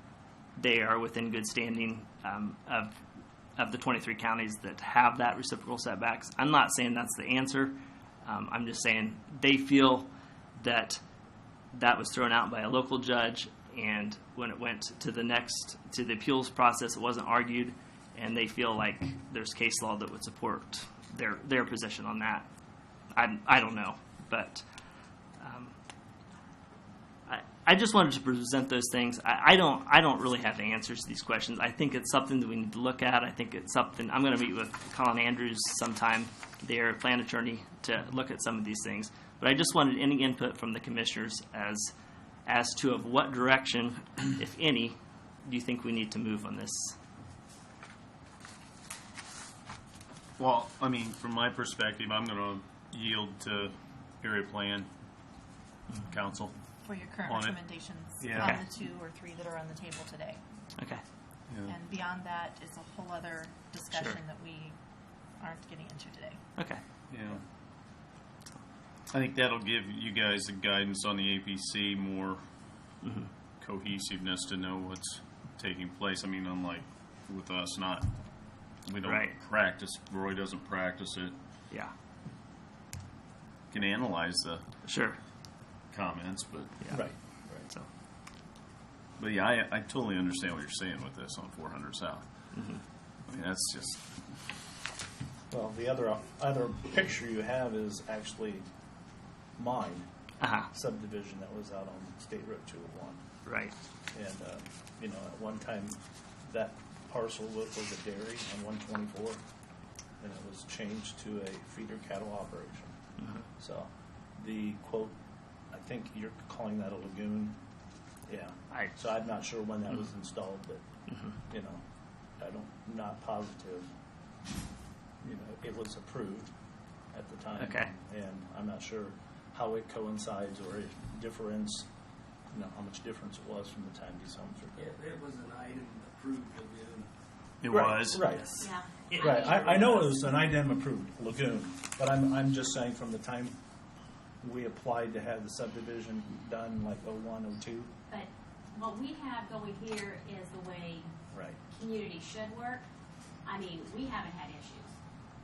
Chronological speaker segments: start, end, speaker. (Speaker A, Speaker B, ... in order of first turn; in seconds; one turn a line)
Speaker A: 0.6-2.9
Speaker A: 3.6-11.0
Speaker A: 11.7-22.5
Speaker A: 23.1-24.6
Speaker A: 25.4-25.7
Speaker A: 27.3-41.9
Speaker A: 42.5-47.0
Speaker B: 50.4-54.9
Speaker B: 56.0-56.5
Speaker C: 56.9-60.4
Speaker B: 57.3-57.6
Speaker B: 58.2-58.6
Speaker A: 58.4-58.6
Speaker A: 60.8-61.0
Speaker B: 61.5-61.8
Speaker C: 61.6-64.8
Speaker A: 63.9-64.2
Speaker C: 65.4-66.4
Speaker A: 66.6-66.8
Speaker B: 67.1-67.4
Speaker B: 69.1-72.4
Speaker A: 73.0-73.3
Speaker B: 73.6-78.1
Speaker B: 78.9-81.3
Speaker A: 79.0-79.4
Speaker B: 83.7-84.6
Speaker A: 84.8-85.2
Speaker B: 85.9-86.8
Speaker D: 86.9-87.7
Speaker B: 89.2-92.3
Speaker A: 92.5-92.8
Speaker B: 93.3-94.0
Speaker D: 95.5-98.6
Speaker D: 99.6-100.1
Speaker A: 100.4-100.7
Speaker D: 100.7-103.2
Speaker A: 103.5-103.7
Speaker D: 104.1-109.4
Speaker D: 110.2-113.0
Speaker A: 113.2-113.5
Speaker D: 113.6-115.1
Speaker D: 115.7-117.6
Speaker D: 118.3-120.8
Speaker D: 121.5-121.8
Speaker D: 122.4-123.9
Speaker D: 125.2-126.5
Speaker D: 127.1-131.9
Speaker A: 127.6-127.9
Speaker D: 132.5-134.9
Speaker E: 134.8-137.1
Speaker B: 137.6-138.3
Speaker D: 137.7-138.6
Speaker F: 138.6-140.4
Speaker A: 139.1-140.0
Speaker D: 139.2-143.6
Speaker D: 144.4-147.9
Speaker F: 148.1-151.1
Speaker D: 151.3-151.6
Speaker F: 151.7-152.8
Speaker F: 153.4-154.9